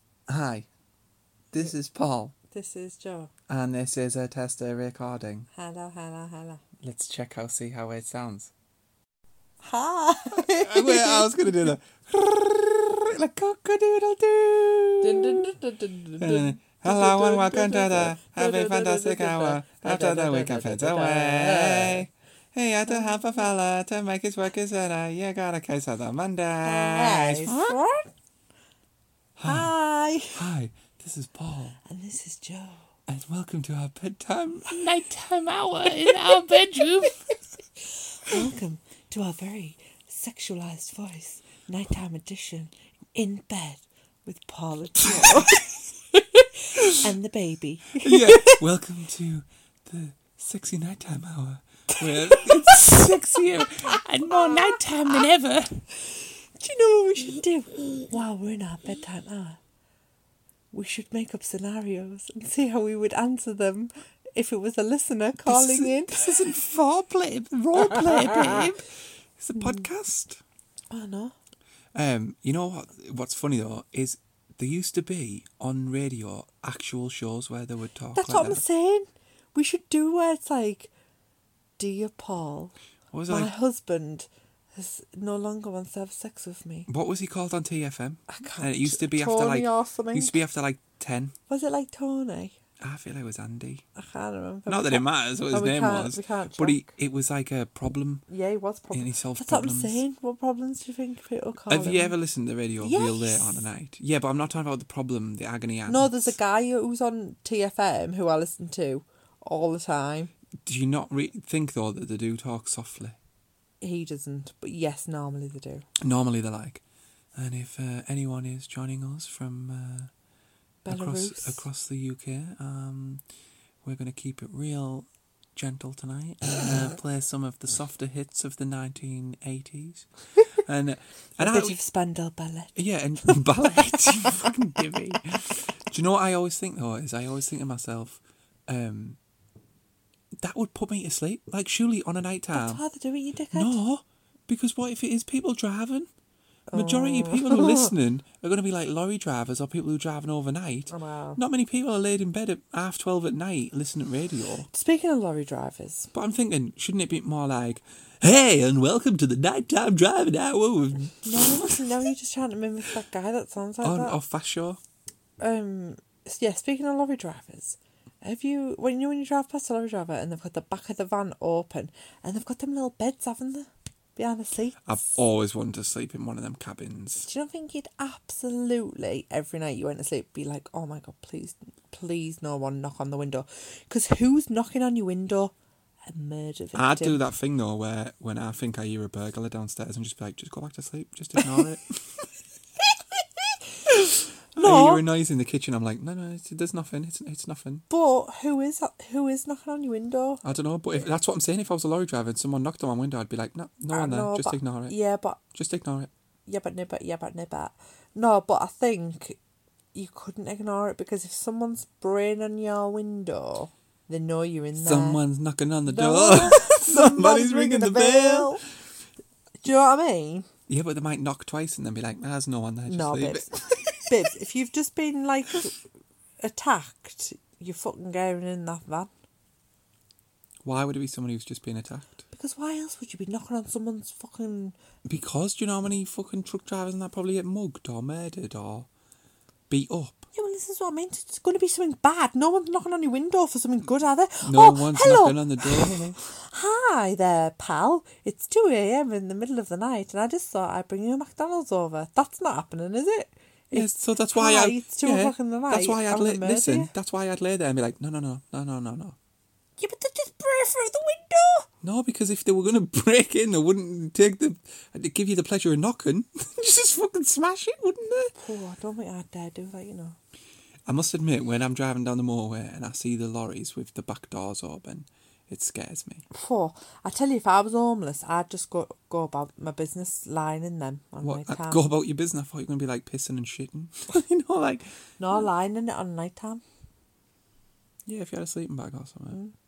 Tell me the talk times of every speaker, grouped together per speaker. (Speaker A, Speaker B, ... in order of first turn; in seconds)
Speaker A: 0.3-0.7, 1.5-2.3, 3.5-5.5, 6.8-8.5, 10.3-15.5, 16.2-27.8, 29.4-29.7, 30.3-31.8, 33.1-37.2, 45.0-45.6, 46.8-47.0, 48.0-55.9, 65.4-70.4, 71.9-78.6, 83.1-83.5, 86.9-91.3, 92.8-93.8, 94.7-98.2, 98.9-100.0, 101.7-106.3, 110.6-113.2, 116.0-116.8, 117.3-120.1, 120.9-123.2, 123.8-131.8, 132.8-139.2, 140.4-142.8, 143.5-146.1, 146.7-154.7, 156.1-161.9, 163.8-164.8, 174.8-177.3, 186.7-192.3, 193.9-197.8, 200.4-204.9, 205.5-206.1, 214.8-218.6, 220.7-224.1, 230.6-232.2, 235.0-238.9, 239.7-240.3, 244.4-246.2, 253.7-259.1, 261.8-268.3, 270.9-276.2, 281.2-285.4, 288.1-289.4
Speaker B: 2.5-3.3, 5.5-6.6, 9.6-11.7, 15.0-22.1, 22.9-23.4, 26.6-28.1, 29.4-30.4, 31.8-32.9, 35.9-36.6, 38.2-45.8, 46.9-48.6, 52.0-53.2, 54.3-54.7, 56.6-59.6, 60.7-66.3, 70.9-71.3, 78.2-80.9, 81.8-82.7, 83.3-86.9, 88.3-90.4, 91.5-92.6, 93.9-96.9, 98.3-102.1, 102.8-103.6, 105.9-110.3, 113.8-115.8, 120.8-121.6, 131.4-134.5, 142.5-143.8, 146.7-147.9, 150.9-151.4, 154.7-156.1, 161.1-164.2, 165.4-174.8, 177.2-185.5, 186.1-187.2, 194.6-195.0, 197.9-200.4, 203.9-205.4, 206.5-209.4, 209.9-215.2, 215.8-218.6, 219.6-220.5, 222.9-225.8, 226.4-229.1, 232.3-234.8, 240.3-256.9, 259.8-261.7, 268.4-270.2, 276.3-281.8, 285.2-286.6